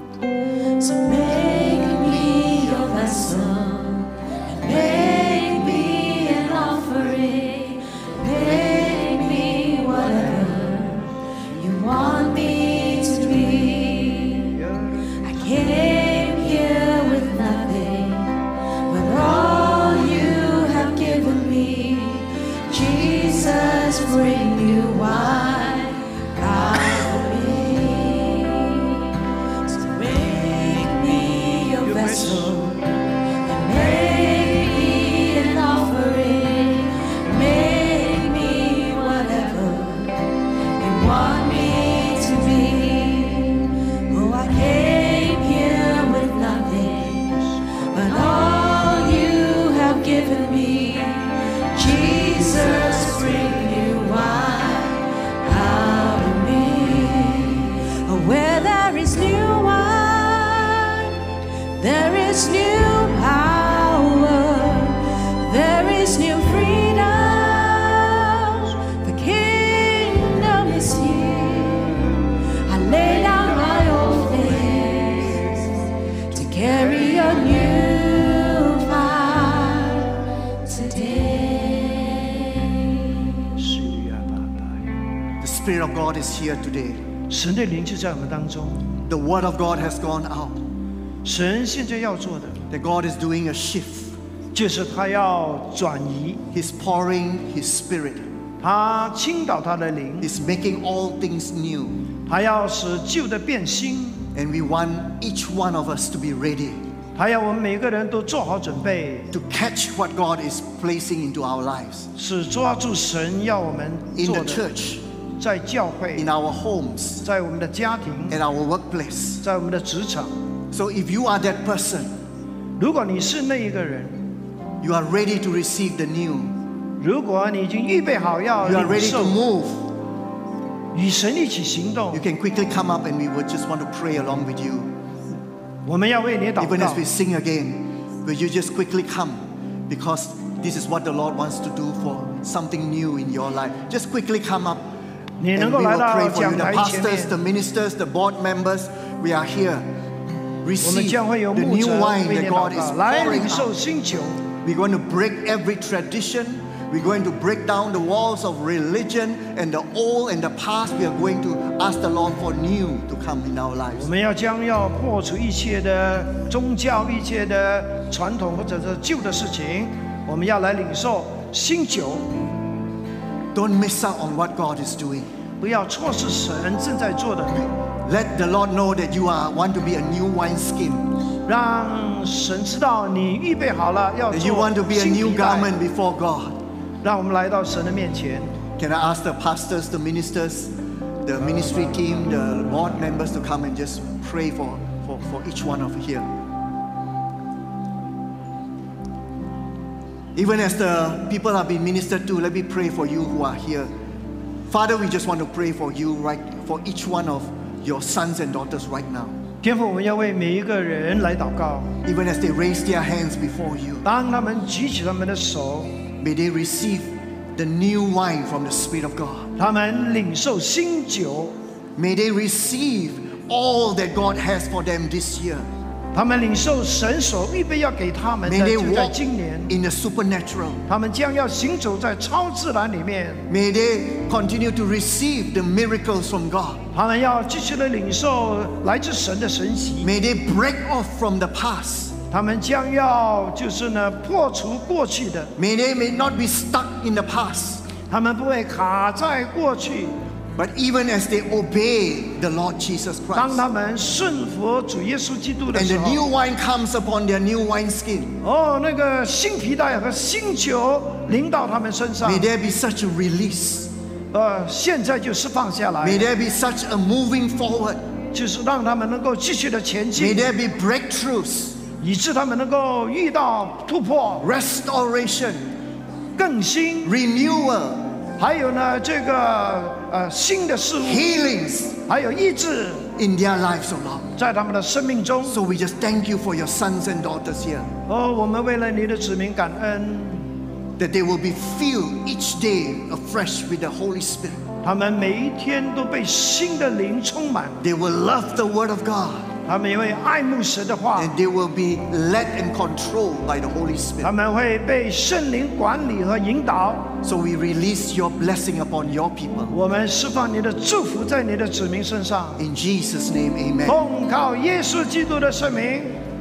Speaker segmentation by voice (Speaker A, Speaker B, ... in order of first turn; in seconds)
Speaker A: 0.8-32.9, 33.4-61.1, 61.8-72.0, 72.7-75.6, 76.3-83.4
Speaker B: 31.8-32.5, 83.6-84.8, 87.3-88.9, 91.2-92.6, 94.5-96.5, 98.6-100.3, 102.3-104.3, 107.2-109.3, 112.2-114.6, 115.4-116.3, 117.2-118.4, 119.4-120.4, 122.8-124.3, 127.0-129.4, 130.9-132.2, 135.8-137.0, 145.4-147.3, 150.8-154.4, 163.9-172.3, 175.6-177.7, 181.5-185.7, 187.0-188.6, 209.6-212.0, 214.0-216.0, 219.6-221.6, 226.1-229.7, 230.9-233.5, 236.9-240.1, 242.3-245.5, 248.1-250.2, 253.3-256.2, 258.4-262.5, 264.3-266.3, 268.3-270.5, 272.0-274.5, 276.4-277.2, 278.4-281.3, 282.1-283.1, 284.4-285.6, 288.1-290.5, 294.8-297.8, 299.6-301.3, 304.2-307.2, 309.7-312.6, 313.9-316.2
Speaker C: 85.4-87.0, 89.0-90.6, 92.7-94.1, 96.5-98.3, 100.2-102.0, 104.3-106.8, 109.3-112.1, 114.1-115.0, 116.2-117.2, 118.3-119.4, 120.7-122.1, 124.8-126.6, 128.6-129.8, 132.1-134.9, 136.6-144.9, 145.5-149.9, 150.6-153.7, 154.6-164.1, 173.5-175.3, 178.0-181.2, 184.3-186.6, 188.8-196.3, 200.3-203.9, 204.7-209.3, 212.0-214.1, 216.2-219.5, 222.0-225.7, 228.4-230.8, 233.5-236.8, 240.0-242.2, 245.6-247.9, 250.6-253.6, 255.7-258.4, 262.2-263.9, 266.0-268.0, 270.1-271.8, 274.4-275.7, 277.0-278.1, 281.0-282.0, 283.1-284.3, 285.4-287.9, 291.0-294.6, 297.8-299.5, 301.1-304.3, 307.2-309.7, 312.6-314.0